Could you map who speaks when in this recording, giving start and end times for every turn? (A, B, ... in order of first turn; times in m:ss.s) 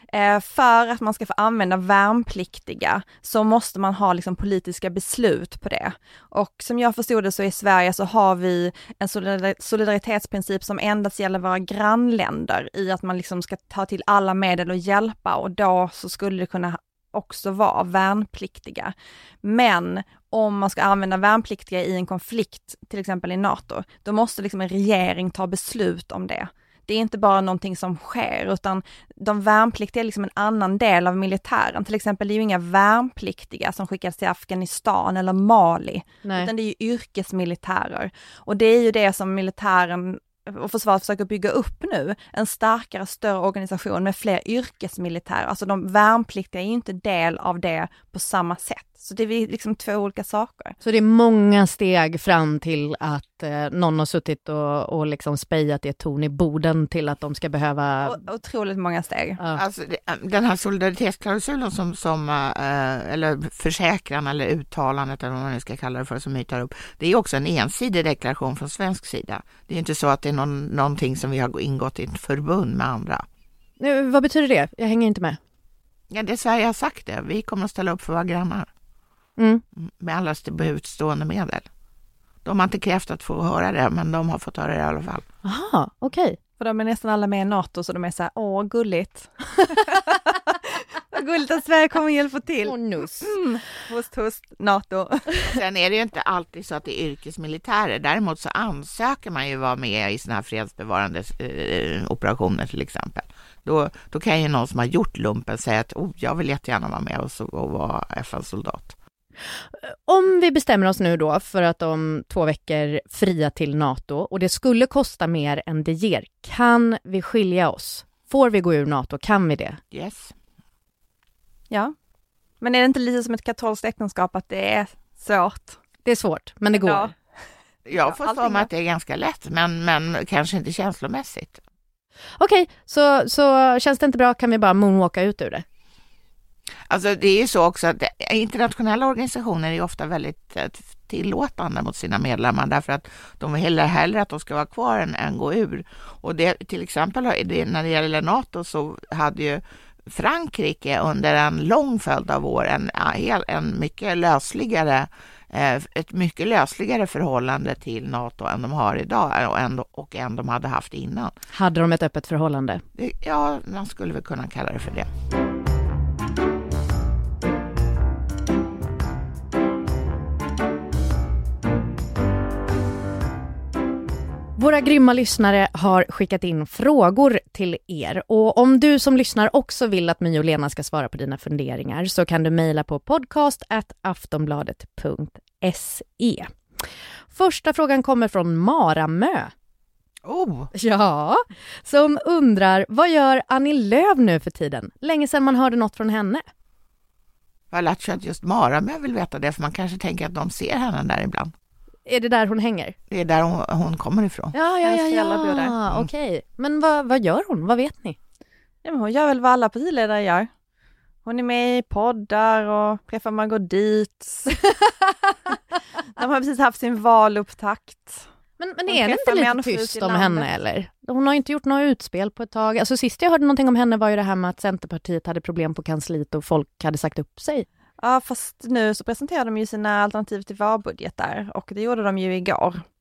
0:00.1-0:50.7 A
0:36.2-0:36.5 B
0:50.8-0:58.2 B
0:58.0-0:59.4 A
0:59.5-1:13.2 C
1:13.8-1:15.4 B
1:16.1-1:18.7 C
1:19.4-1:19.6 B
1:19.8-1:21.6 C
1:22.4-1:25.2 C
1:25.4-1:26.4 B
1:26.6-1:35.5 A
1:32.6-1:33.3 B
1:35.5-1:48.9 C
1:49.8-1:59.8 B
1:59.9-2:00.3 C
2:02.6-2:05.8 A
2:06.0-2:07.1 B
2:06.7-2:07.2 A
2:07.9-2:11.6 C
2:08.0-2:08.7 A
2:12.4-2:15.6 B
2:16.9-2:41.3 C
2:41.5-2:42.8 B
2:43.0-2:45.1 C
2:54.6-3:06.5 B
3:07.3-3:09.5 B
3:10.2-3:10.7 C
3:10.7-3:16.4 B
3:17.7-3:21.5 C
3:22.0-3:22.9 B
3:23.1-3:24.5 C
3:24.5-3:28.2 B
3:24.8-3:25.8 A
3:28.8-3:30.5 A
3:31.2-3:34.8 A
3:36.2-3:38.2 A
3:38.6-3:47.6 B
3:38.9-3:40.5 A
3:48.0-3:52.8 A